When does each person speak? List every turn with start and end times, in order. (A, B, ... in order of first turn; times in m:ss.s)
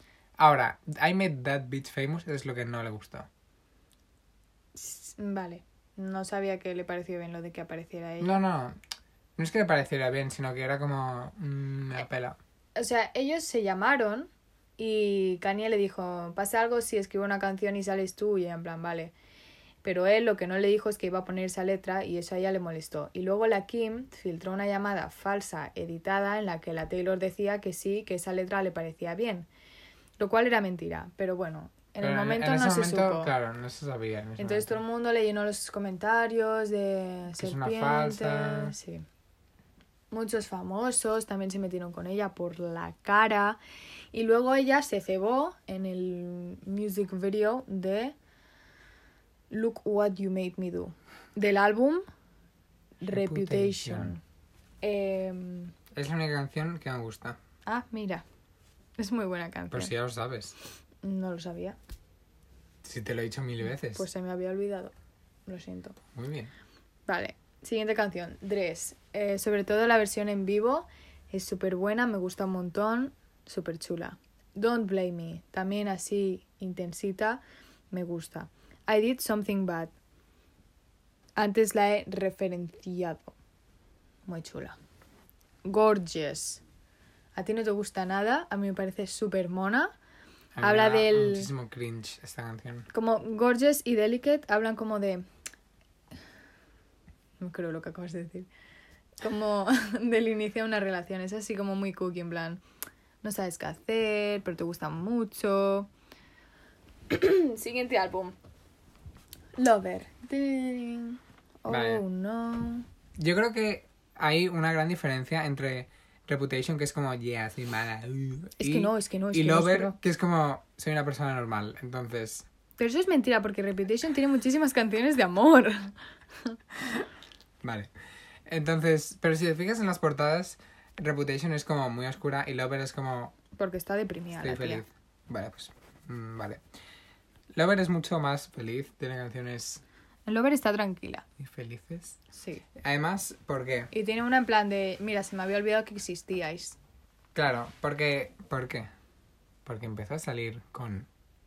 0:00.4-0:03.3 A
0:04.8-0:08.4 B
0:08.2-0:08.8 A
0:09.4-0:12.4 A
0:12.8-0:19.1 B
0:19.8-0:29.5 B
0:30.2-0:33.3 B
0:32.0-0:34.8 A
0:34.4-0:39.1 B
0:37.4-0:38.8 A
0:40.1-0:43.6 B
0:44.1-0:48.2 B
0:49.5-0:52.0 B
0:53.0-0:54.2 B
0:53.1-0:54.2 A
0:54.8-0:55.8 B
0:55.9-0:57.4 A
0:57.7-0:58.2 B
0:59.0-0:59.9 B
0:59.7-1:00.6 A
1:01.0-1:01.8 B
1:02.8-1:04.1 A
1:03.9-1:04.9 B
1:05.5-1:06.0 B
1:06.1-1:06.5 A
1:07.1-1:19.9 B
1:21.4-1:23.4 B
1:24.3-1:24.8 B
1:25.6-1:26.6 B
1:27.4-1:29.9 B
1:30.6-1:32.9 A
1:30.6-1:31.5 B
1:32.9-1:35.2 B
1:37.4-1:38.5 B
1:39.2-1:42.6 B
1:43.2-1:45.9 B
1:47.1-1:48.4 B
1:49.6-1:52.9 B
1:51.7-1:52.0 A
1:53.2-2:02.5 A
1:58.6-2:00.0 B
2:02.8-2:06.6 B
2:07.6-2:07.9 A
2:08.5-2:13.4 A
2:13.6-2:14.8 B
2:14.4-2:16.6 A
2:17.5-2:19.8 A
2:20.3-2:21.3 B
2:21.4-2:22.2 A
2:22.3-2:22.7 B
2:22.8-2:23.9 A
2:23.9-2:26.8 B
2:27.4-2:28.9 A
2:29.6-2:31.1 A